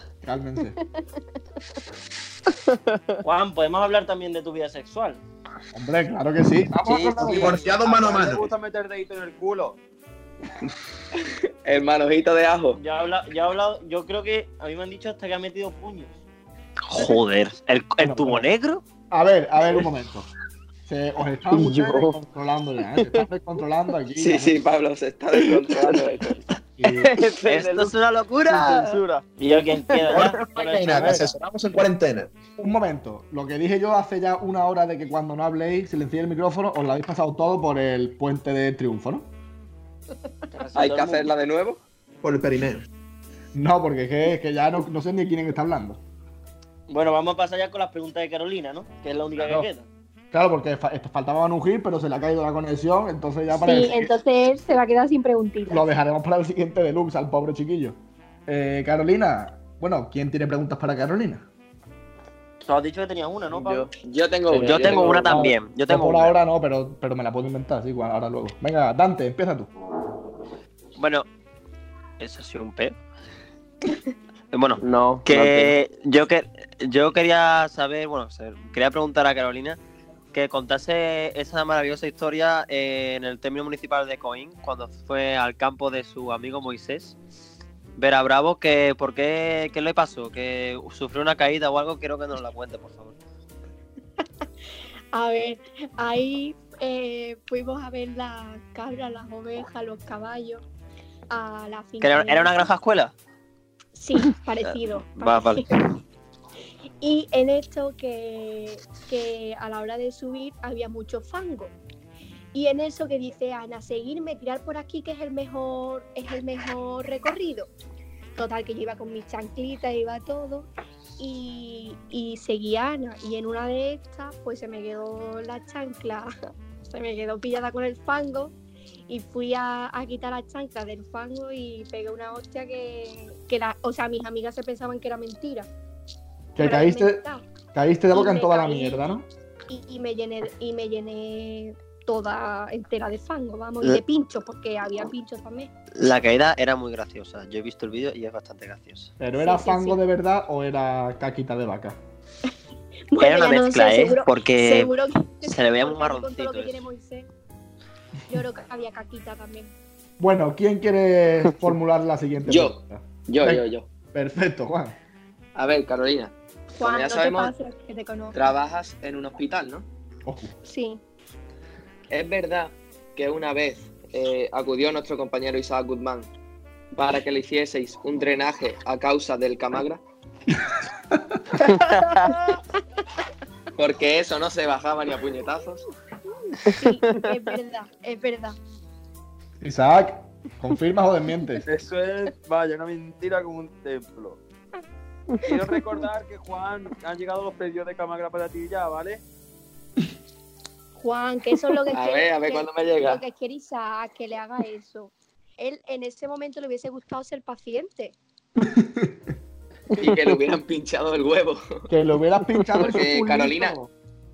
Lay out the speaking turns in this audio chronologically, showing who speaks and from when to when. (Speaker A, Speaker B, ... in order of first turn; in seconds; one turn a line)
Speaker A: 0.2-0.8
Speaker B: 2.7-3.2
Speaker C: 3.2-5.2
Speaker A: 5.7-7.6
Speaker B: 6.8-9.8
Speaker D: 7.2-8.5
Speaker E: 11.7-12.8
Speaker C: 12.8-16.2
Speaker F: 16.9-18.8
Speaker A: 18.0-18.5
Speaker A: 19.1-20.3
Speaker A: 20.9-24.6
Speaker B: 21.5-22.2
Speaker B: 23.0-23.2
Speaker E: 24.2-26.4
Speaker A: 26.8-27.1
Speaker B: 26.9-30.6
Speaker F: 27.5-28.9
Speaker C: 28.5-31.3
Speaker D: 30.1-32.3
Speaker A: 30.7-31.3
Speaker A: 32.6-39.3
Speaker C: 40.5-41.3
Speaker E: 40.7-41.8
Speaker D: 42.2-42.9
Speaker A: 43.5-46.0
Speaker C: 46.9-49.9
Speaker A: 49.4-49.6
Speaker A: 50.3-54.1
Speaker G: 53.6-55.8
Speaker A: 55.7-61.4
Speaker C: 62.6-63.9
Speaker E: 64.0-65.5
Speaker C: 64.5-65.1
Speaker F: 64.6-66.3
Speaker A: 65.2-69.7
Speaker F: 71.0-71.3
Speaker F: 72.2-72.9
Speaker F: 74.5-79.8
Speaker B: 74.8-75.7
Speaker F: 80.3-87.2
Speaker F: 88.0-93.2
Speaker G: 95.1-100.6
Speaker G: 101.3-102.7
Speaker F: 102.0-103.1
Speaker G: 103.9-105.8
Speaker F: 104.6-105.7
Speaker G: 107.0-111.7
Speaker G: 112.5-117.7
Speaker G: 118.3-126.3
Speaker G: 126.9-128.5
Speaker G: 129.1-135.7
Speaker A: 136.6-137.2
Speaker G: 136.6-137.4
Speaker A: 137.7-139.2
Speaker G: 138.1-139.1
Speaker G: 139.7-145.7
Speaker F: 146.0-149.1
Speaker A: 149.2-152.0
Speaker G: 149.4-150.0
Speaker G: 153.1-157.3
Speaker F: 153.2-154.9
Speaker F: 155.4-156.8
Speaker G: 158.3-159.7
Speaker A: 160.2-164.9
Speaker E: 162.4-163.9
Speaker E: 165.5-167.5
Speaker G: 166.8-168.4
Speaker E: 168.3-169.8
Speaker A: 170.2-170.5
Speaker G: 170.6-171.0
Speaker E: 172.1-176.3
Speaker E: 176.9-180.0
Speaker B: 181.7-182.3
Speaker E: 183.8-185.8
Speaker B: 186.7-187.2
Speaker G: 186.7-188.6
Speaker A: 189.6-191.6
Speaker B: 191.7-194.4
Speaker B: 195.4-199.2
Speaker G: 200.9-208.2
Speaker E: 201.9-203.2
Speaker A: 208.6-209.1
Speaker E: 209.9-211.9
Speaker A: 211.9-213.9
Speaker E: 212.8-213.8